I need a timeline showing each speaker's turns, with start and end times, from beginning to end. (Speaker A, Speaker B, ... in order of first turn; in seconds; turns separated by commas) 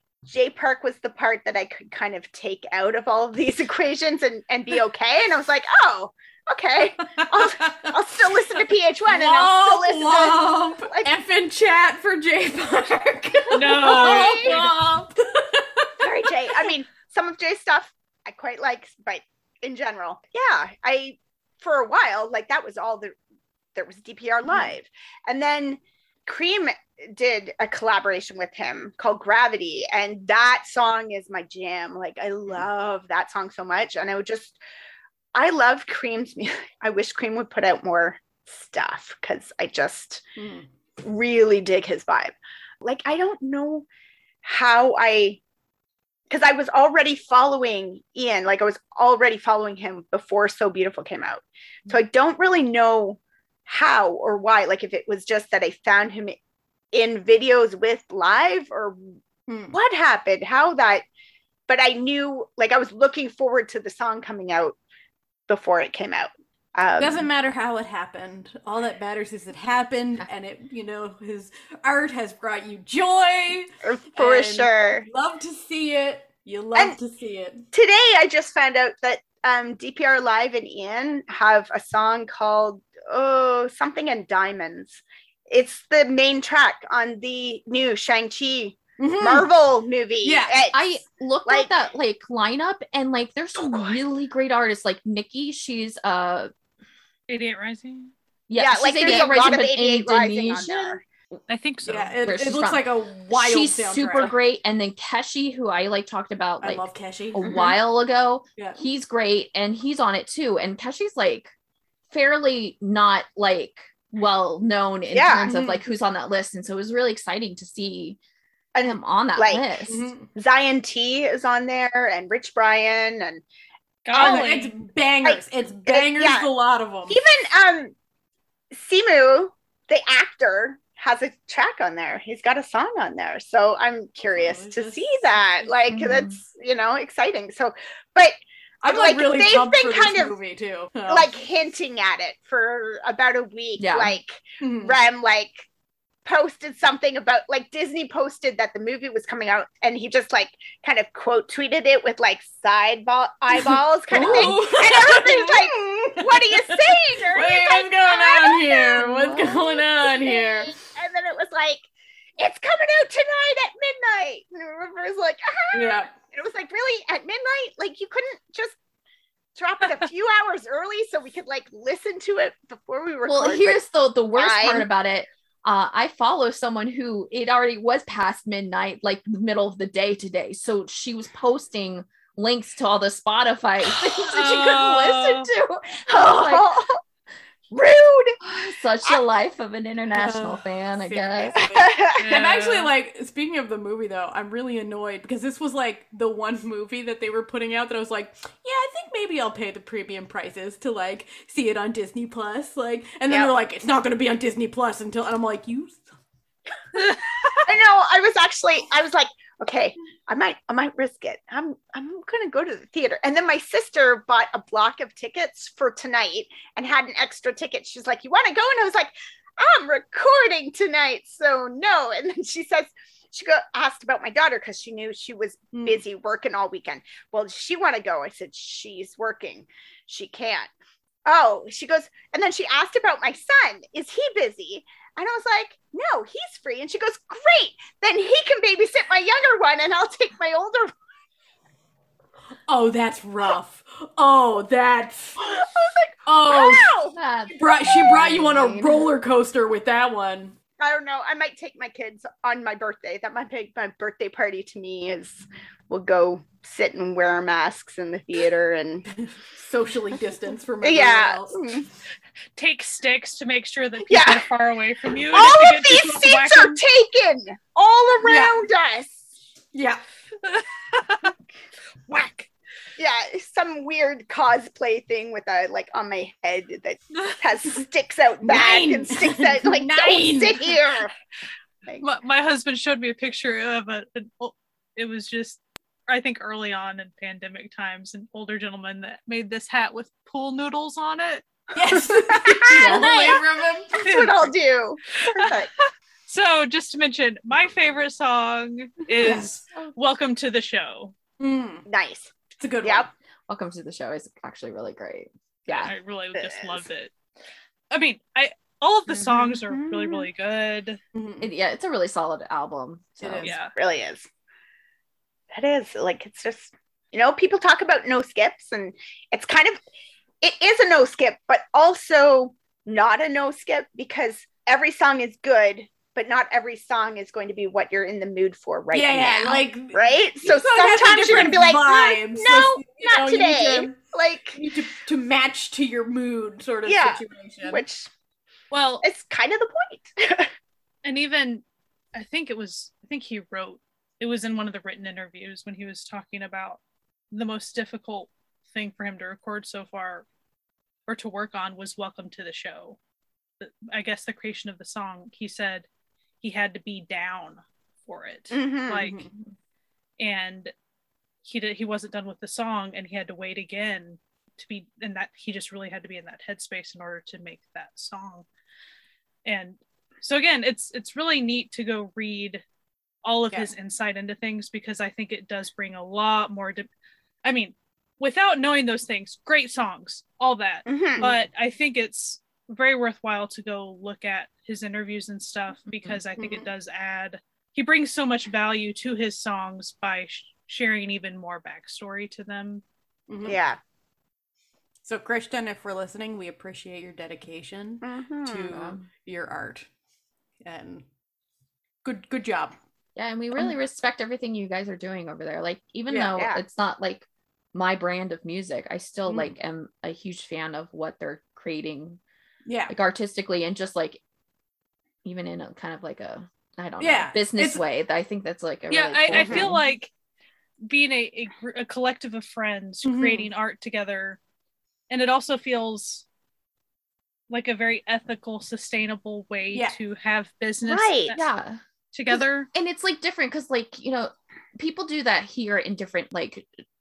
Speaker A: 0.2-11.1, Speaker B: 7.5-7.9, Speaker B: 9.1-16.6, Speaker C: 13.5-14.8, Speaker A: 13.8-14.6, Speaker A: 16.0-23.1, Speaker A: 23.7-34.6, Speaker A: 35.3-40.2, Speaker B: 40.4-40.7, Speaker A: 41.0-43.9, Speaker A: 44.4-45.4, Speaker A: 46.3-56.4, Speaker A: 56.9-59.1, Speaker B: 59.5-59.8, Speaker A: 59.7-61.0, Speaker A: 61.7-64.8, Speaker A: 65.5-67.2, Speaker B: 67.0-77.6, Speaker A: 73.8-75.0, Speaker A: 77.7-91.7, Speaker B: 89.0-89.5, Speaker B: 90.2-90.6, Speaker D: 90.7-96.5, Speaker A: 93.5-94.0, Speaker C: 97.3-98.1, Speaker D: 98.5-101.0, Speaker A: 98.6-101.0, Speaker C: 101.5-102.1, Speaker B: 101.9-104.3, Speaker D: 102.2-111.5, Speaker B: 106.6-107.5, Speaker A: 107.4-107.8, Speaker B: 108.6-108.8, Speaker D: 112.1-118.2, Speaker A: 115.1-115.5, Speaker B: 115.4-115.8, Speaker A: 118.7-119.6, Speaker D: 118.8-120.1, Speaker B: 119.9-120.3, Speaker A: 120.3-123.4, Speaker C: 124.0-124.7, Speaker A: 124.1-124.5, Speaker B: 124.2-127.2, Speaker A: 125.2-126.5, Speaker A: 127.1-127.9, Speaker A: 128.7-138.4, Speaker B: 134.3-135.7, Speaker D: 135.9-136.4, Speaker B: 138.8-141.3, Speaker A: 138.9-140.3, Speaker A: 141.1-145.7, Speaker D: 143.8-144.1, Speaker B: 144.6-145.0, Speaker A: 146.2-161.9, Speaker B: 153.5-160.8, Speaker D: 154.1-154.5, Speaker D: 159.0-159.6, Speaker A: 162.4-168.8, Speaker B: 165.7-166.1, Speaker A: 169.5-173.8, Speaker D: 173.3-186.8, Speaker A: 174.3-174.8, Speaker C: 184.3-185.5, Speaker A: 186.1-187.0, Speaker A: 187.7-188.3, Speaker D: 188.4-191.6, Speaker B: 190.1-206.1, Speaker A: 191.8-192.3, Speaker C: 192.2-192.9, Speaker C: 206.9-207.6, Speaker A: 207.6-230.7, Speaker B: 225.7-226.0, Speaker A: 231.2-240.9, Speaker B: 242.7-245.4, Speaker A: 245.4-247.2, Speaker B: 246.2-246.9, Speaker D: 247.1-248.4, Speaker B: 247.5-250.6, Speaker A: 247.8-248.9, Speaker A: 250.8-259.1, Speaker B: 259.2-261.6, Speaker A: 260.8-261.9, Speaker C: 262.6-266.8, Speaker A: 264.1-264.4, Speaker A: 265.3-269.2, Speaker B: 268.2-268.5, Speaker B: 269.7-270.0, Speaker C: 270.4-271.3, Speaker A: 272.1-281.1, Speaker B: 278.4-280.8, Speaker C: 282.0-291.4, Speaker B: 291.7-294.0, Speaker A: 292.3-293.4, Speaker D: 292.8-293.2, Speaker A: 293.9-295.7, Speaker C: 294.0-294.5, Speaker C: 295.1-301.1, Speaker B: 299.2-299.5, Speaker B: 301.4-301.8, Speaker A: 301.9-303.1, Speaker B: 302.6-303.1, Speaker D: 303.5-305.9, Speaker C: 305.7-307.1, Speaker A: 306.3-306.8, Speaker C: 307.9-311.0, Speaker A: 309.1-310.3, Speaker B: 311.1-311.5, Speaker D: 311.4-313.6, Speaker B: 313.2-313.5, Speaker C: 313.4-313.7, Speaker A: 313.8-314.3, Speaker A: 315.5-319.8, Speaker A: 320.4-334.6, Speaker B: 328.9-334.0, Speaker B: 334.5-337.8, Speaker A: 336.9-338.1, Speaker C: 338.7-339.0, Speaker A: 339.0-340.5, Speaker C: 341.0-341.6, Speaker C: 342.1-346.8, Speaker C: 347.3-350.2, Speaker C: 351.1-353.0, Speaker C: 353.6-355.9, Speaker C: 356.4-359.3, Speaker A: 358.5-359.1, Speaker B: 358.9-359.3, Speaker C: 360.2-360.7, Speaker C: 361.4-368.5, Speaker C: 369.4-372.6, Speaker C: 373.2-376.9, Speaker C: 377.4-392.8, Speaker A: 380.9-381.2, Speaker B: 381.2-381.4, Speaker D: 385.9-386.2, Speaker A: 386.4-386.7, Speaker B: 393.3-393.6, Speaker A: 393.4-393.8, Speaker B: 395.0-399.9, Speaker A: 398.0-398.8, Speaker D: 398.7-399.0, Speaker B: 400.6-401.0, Speaker B: 402.0-402.8, Speaker D: 403.1-412.2, Speaker B: 406.1-406.4, Speaker A: 406.3-406.6, Speaker B: 409.3-409.5, Speaker B: 412.6-412.9, Speaker D: 412.9-414.2, Speaker D: 415.2-419.8, Speaker B: 417.0-417.8, Speaker C: 418.9-420.1, Speaker A: 419.3-419.7, Speaker C: 420.9-424.4, Speaker B: 423.0-423.5, Speaker C: 425.1-426.2, Speaker C: 427.5-431.4, Speaker A: 430.8-431.4, Speaker D: 431.3-431.8, Speaker C: 432.1-432.7, Speaker D: 432.7-436.7